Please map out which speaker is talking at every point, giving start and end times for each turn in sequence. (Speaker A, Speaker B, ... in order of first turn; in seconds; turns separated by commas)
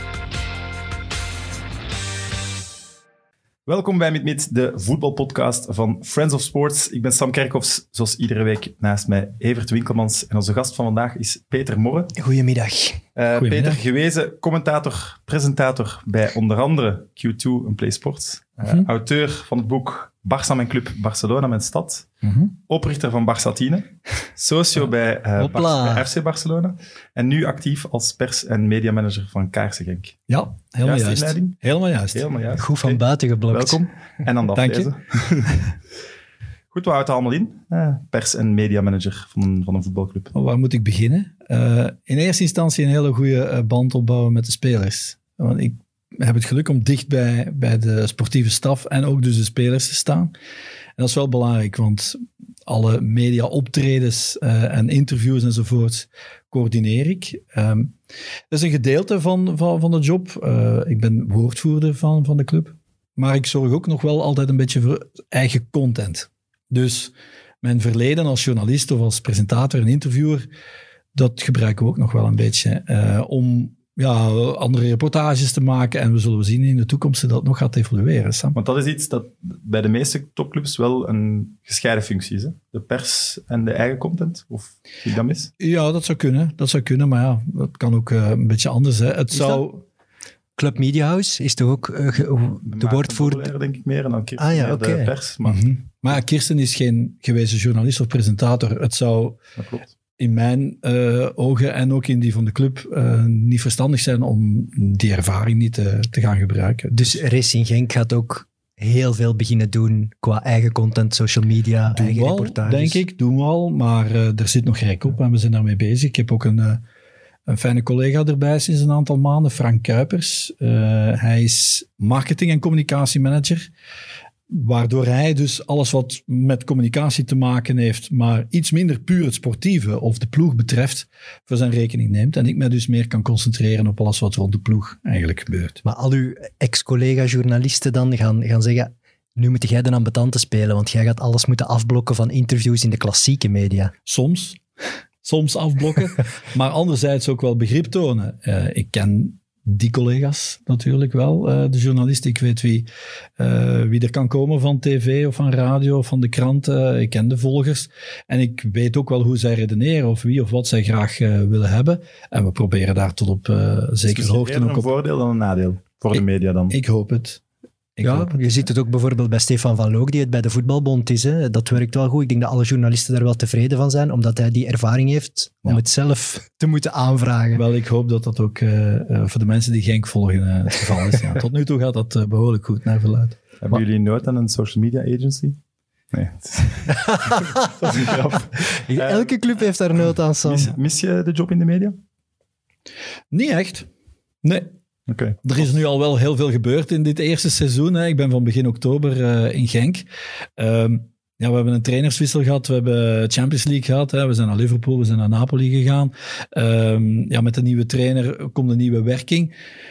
Speaker A: 3.7-12.1, Speaker B: 12.2-13.0, Speaker A: 13.2-22.1, Speaker C: 13.4-13.8, Speaker C: 22.2-22.5, Speaker A: 22.7-30.2, Speaker B: 25.4-26.1, Speaker C: 30.3-32.3, Speaker A: 30.8-31.6, Speaker A: 32.1-35.6, Speaker B: 32.6-33.8, Speaker C: 34.5-34.9, Speaker A: 36.7-40.3, Speaker C: 40.3-50.3, Speaker C: 51.0-57.9, Speaker C: 58.5-70.5, Speaker C: 71.2-78.6, Speaker A: 78.5-85.5, Speaker C: 85.6-89.8, Speaker B: 89.3-89.7, Speaker B: 90.6-93.5, Speaker A: 92.6-95.6, Speaker B: 94.4-95.8, Speaker C: 95.5-99.4, Speaker A: 99.6-99.8, Speaker C: 100.2-107.2, Speaker B: 106.9-113.0, Speaker C: 111.9-116.8, Speaker C: 117.5-123.7, Speaker C: 124.5-135.8, Speaker B: 135.8-143.9, Speaker C: 144.1-144.6, Speaker C: 145.2-152.9, Speaker C: 153.4-164.9, Speaker A: 164.1-166.8, Speaker C: 166.1-167.4, Speaker C: 168.0-168.7, Speaker B: 168.0-177.6, Speaker C: 177.6-183.8, Speaker A: 183.6-185.6, Speaker A: 186.1-189.3, Speaker B: 186.9-187.7, Speaker B: 188.7-190.7, Speaker A: 190.4-192.0, Speaker C: 193.3-193.9, Speaker C: 194.4-194.7, Speaker A: 195.1-195.7, Speaker C: 195.4-200.1, Speaker C: 200.6-209.5